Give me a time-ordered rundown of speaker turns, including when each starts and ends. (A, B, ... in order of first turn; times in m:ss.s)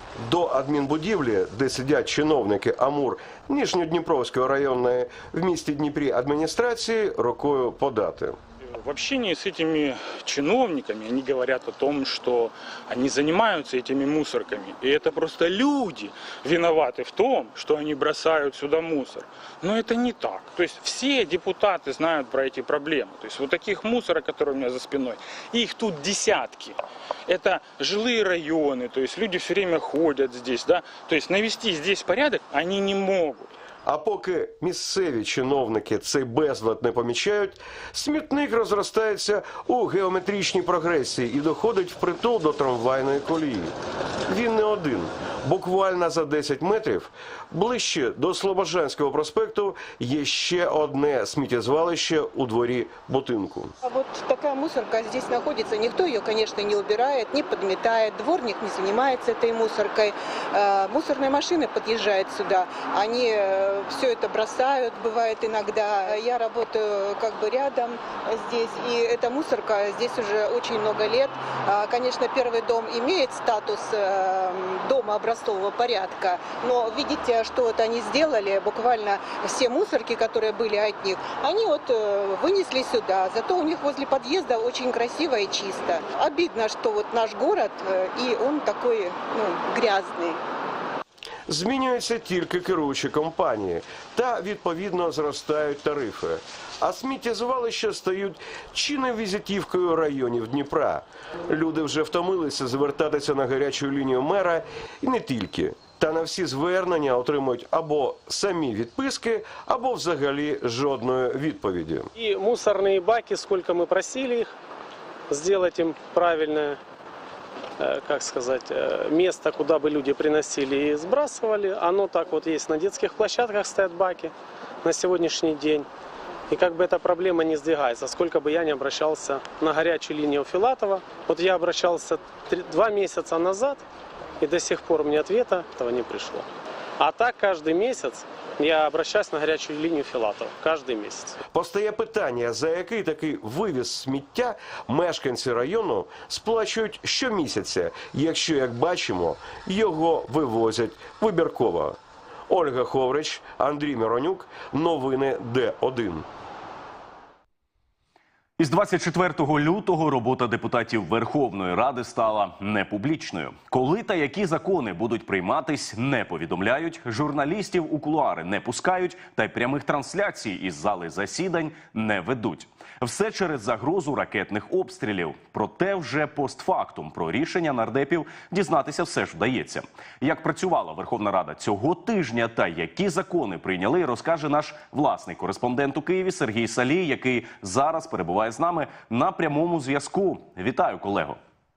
0:00.2-0:08.4 A
0:08.6-0:33.5 B
0:33.8-0:43.7 A
0:44.3-0:53.7 A
0:53.8-1:30.4 C
1:31.5-1:52.1 A
1:52.2-1:54.5 D
1:55.3-1:56.8 D
1:57.8-2:05.9 D
2:06.5-2:13.8 D
2:14.4-2:16.5 D
2:17.0-2:21.4 D
2:21.5-2:32.0 A
2:32.5-2:36.3 A
2:38.6-3:11.4 E